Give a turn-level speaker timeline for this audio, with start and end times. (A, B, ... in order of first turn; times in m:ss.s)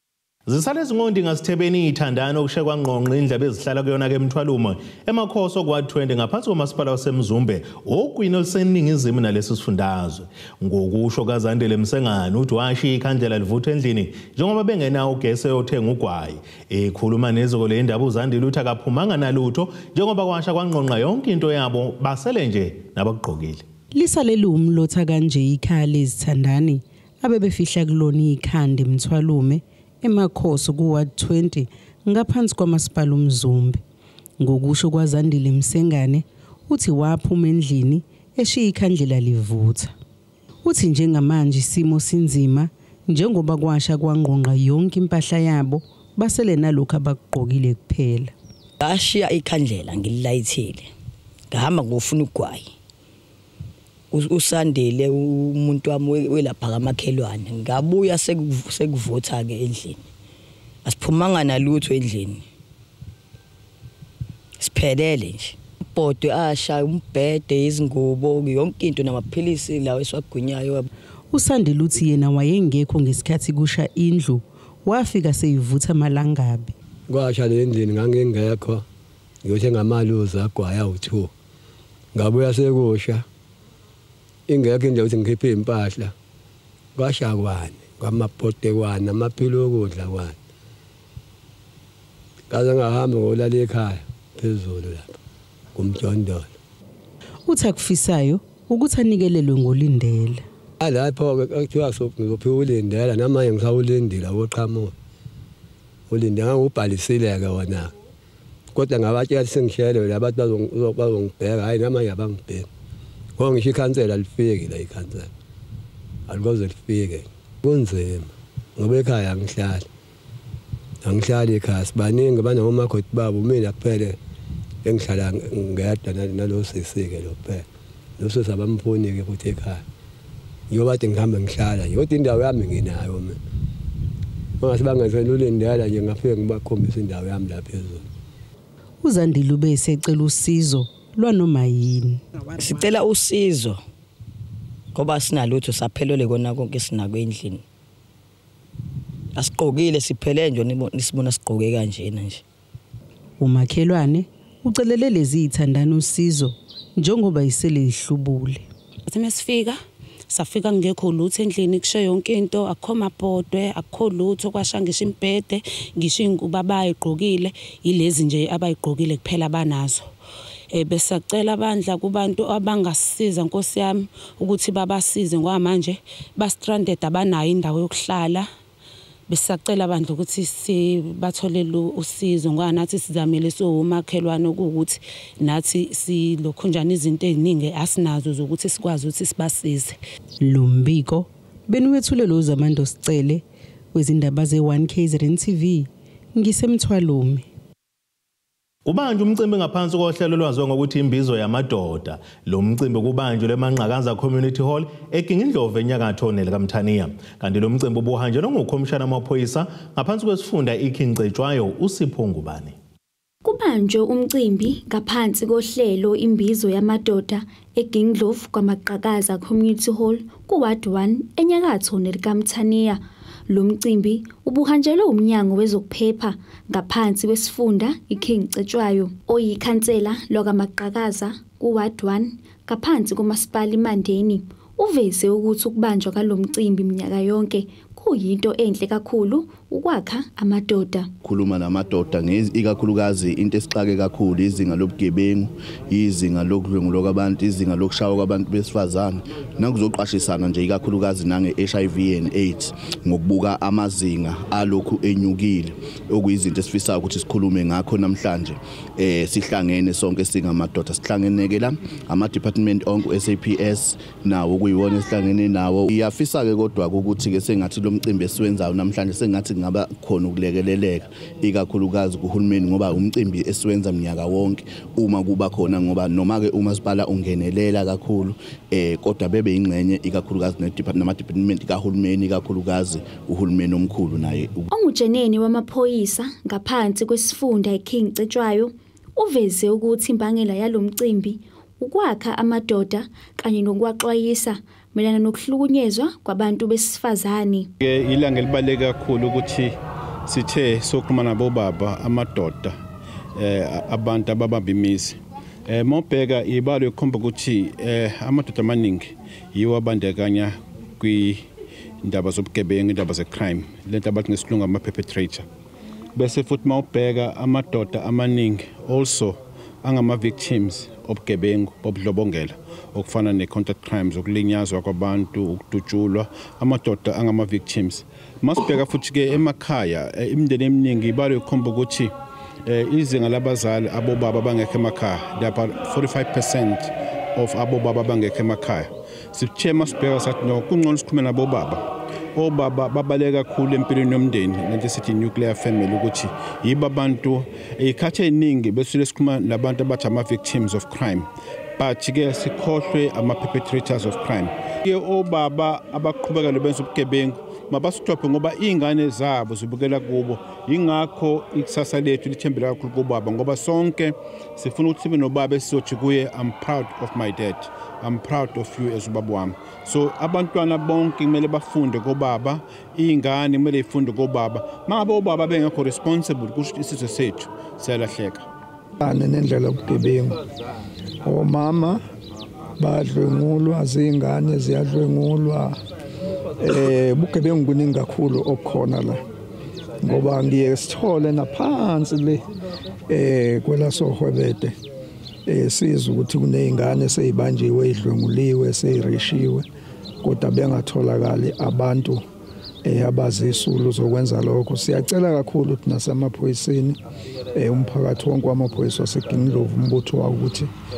0:00.5-0:23.6 A
0:24.0-0:33.8 B
0:34.4-0:39.9 B
0:40.6-0:48.3 B
0:48.8-0:50.9 C
0:51.5-0:52.7 C
0:54.1-1:00.0 C
1:00.8-1:02.4 C
1:04.6-1:10.9 C
1:11.3-1:16.7 B
1:17.1-1:18.8 D
1:19.4-1:21.3 D
1:22.2-1:23.2 D
1:24.5-1:26.1 D
1:27.0-1:30.4 D
1:32.5-1:35.2 D
1:35.8-1:36.5 D
1:37.5-1:40.4 B
1:40.8-1:44.9 D
1:46.1-1:47.9 D
1:48.7-1:52.7 D
1:53.4-1:55.3 D
1:56.3-1:59.9 D
2:01.0-2:04.2 D
2:04.8-2:07.6 D
2:08.2-2:09.8 D
2:10.7-2:13.4 D
2:14.6-2:18.0 D
2:19.0-2:22.2 B
2:22.6-2:23.8 C
2:25.0-2:27.6 C
2:29.4-2:32.4 C
2:33.4-2:38.7 B
2:39.1-2:50.1 E
2:50.7-2:58.5 E
2:59.3-3:10.0 E
3:10.4-3:17.4 B
3:18.9-3:32.8 A
3:33.4-4:01.1 F
4:01.2-4:44.7 G
4:44.7-4:57.7 F
4:57.8-4:59.8 H
5:00.3-5:02.8 H
5:03.4-5:11.4 H
5:12.0-5:15.5 H
5:16.2-5:32.1 H
5:32.7-5:41.8 H
5:42.4-6:18.4 H
6:19.0-6:20.4 I
6:21.2-6:22.0 I
6:22.8-6:25.8 I
6:26.6-6:29.2 I
6:30.0-6:32.4 I
6:33.1-6:34.7 I
6:35.5-6:39.6 I
6:40.2-6:42.2 I
6:42.8-6:47.0 I
6:47.6-6:50.7 I